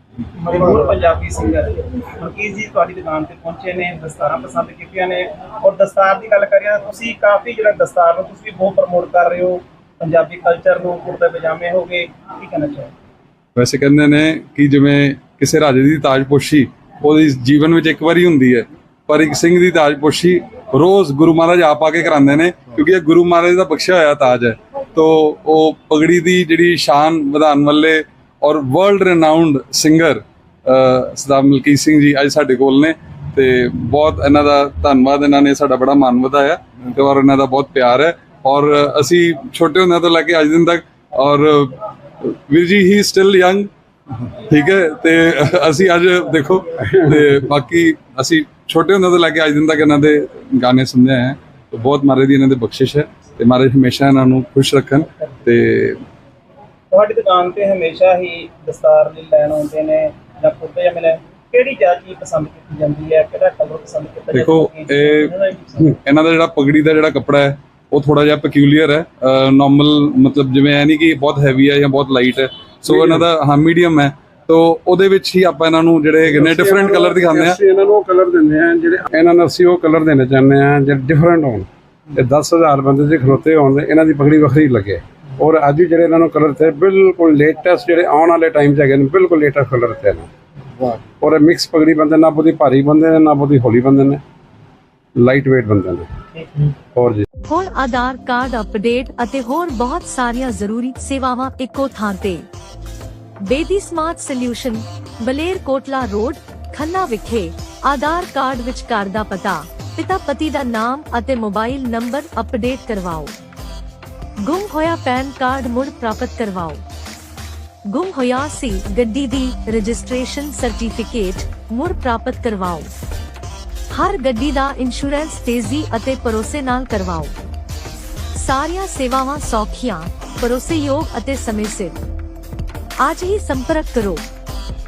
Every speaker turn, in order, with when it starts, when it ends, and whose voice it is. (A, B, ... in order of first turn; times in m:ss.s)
0:00.4-0:12.9 A
0:13.6-0:43.7 B
0:44.5-0:56.0 B
0:56.9-1:06.0 A
1:04.3-1:05.3 B
1:05.8-1:17.6 B
1:12.9-1:13.2 C
1:16.3-1:30.3 C
1:31.2-1:34.2 C
1:35.2-1:36.1 C
1:36.4-1:36.7 A
1:37.0-1:37.3 C
1:37.5-1:42.4 D
1:43.4-1:53.3 D
1:54.4-1:56.8 D
1:57.9-2:02.9 D
2:03.9-2:07.3 D
2:08.4-2:12.0 D
2:13.0-2:14.2 D